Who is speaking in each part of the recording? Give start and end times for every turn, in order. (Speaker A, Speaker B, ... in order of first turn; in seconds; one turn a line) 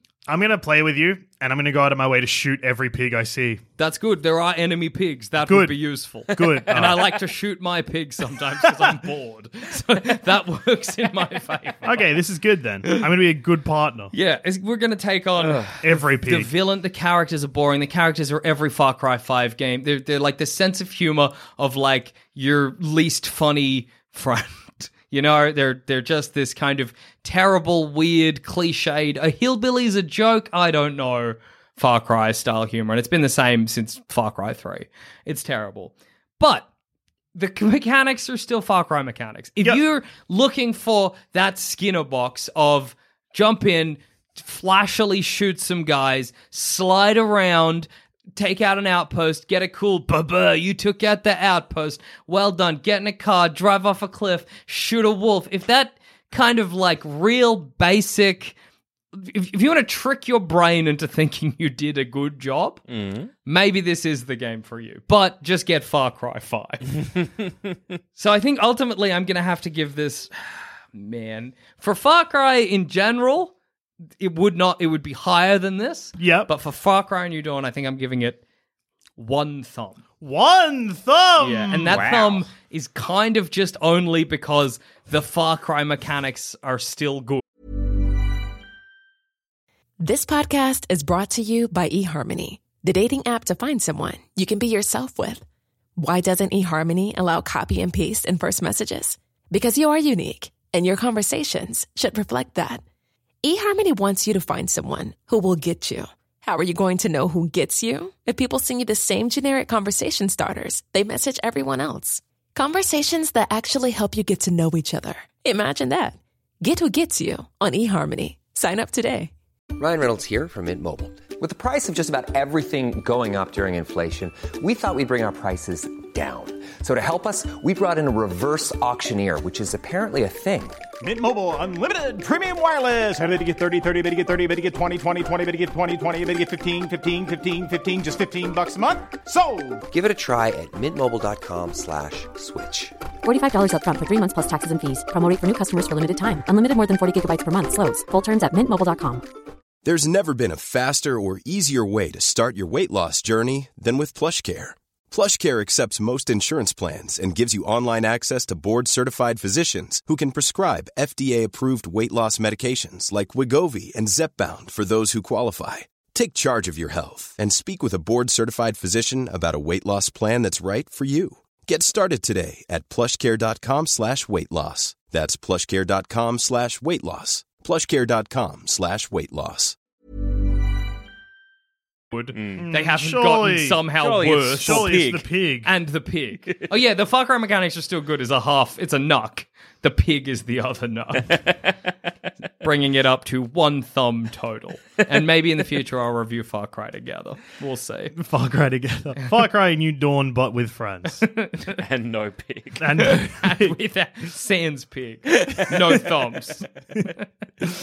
Speaker A: 0.3-3.6
Speaker B: 3.8-12.1
Speaker A: 5.4-7.1
Speaker A: 11.8-14.1
Speaker B: 14.1-36.6
Speaker C: 15.4-15.7
Speaker A: 15.8-16.5
Speaker B: 37.3-58.5
Speaker B: 59.1-62.8
Speaker C: 62.9-63.3
Speaker B: 63.4-67.0
Speaker B: 68.1-70.3
Speaker B: 70.9-73.5
Speaker B: 74.2-78.4
Speaker A: 76.2-76.5
Speaker B: 79.2-80.0
Speaker A: 80.2-82.3
Speaker B: 81.4-87.4
Speaker D: 90.0-95.4
Speaker D: 96.0-102.8
Speaker D: 103.4-119.3
Speaker E: 119.7-130.8
Speaker F: 131.0-139.8
Speaker E: 139.9-142.9
Speaker G: 143.2-149.2
Speaker H: 149.8-179.8
Speaker A: 182.1-183.8
Speaker C: 182.3-182.6
Speaker B: 182.7-184.9
Speaker C: 184.0-185.2
Speaker A: 184.6-185.7
Speaker B: 185.6-191.5
Speaker B: 192.6-198.1
Speaker A: 198.2-201.3
Speaker B: 201.2-201.8
Speaker C: 201.8-202.8
Speaker A: 202.8-203.8
Speaker B: 203.0-206.7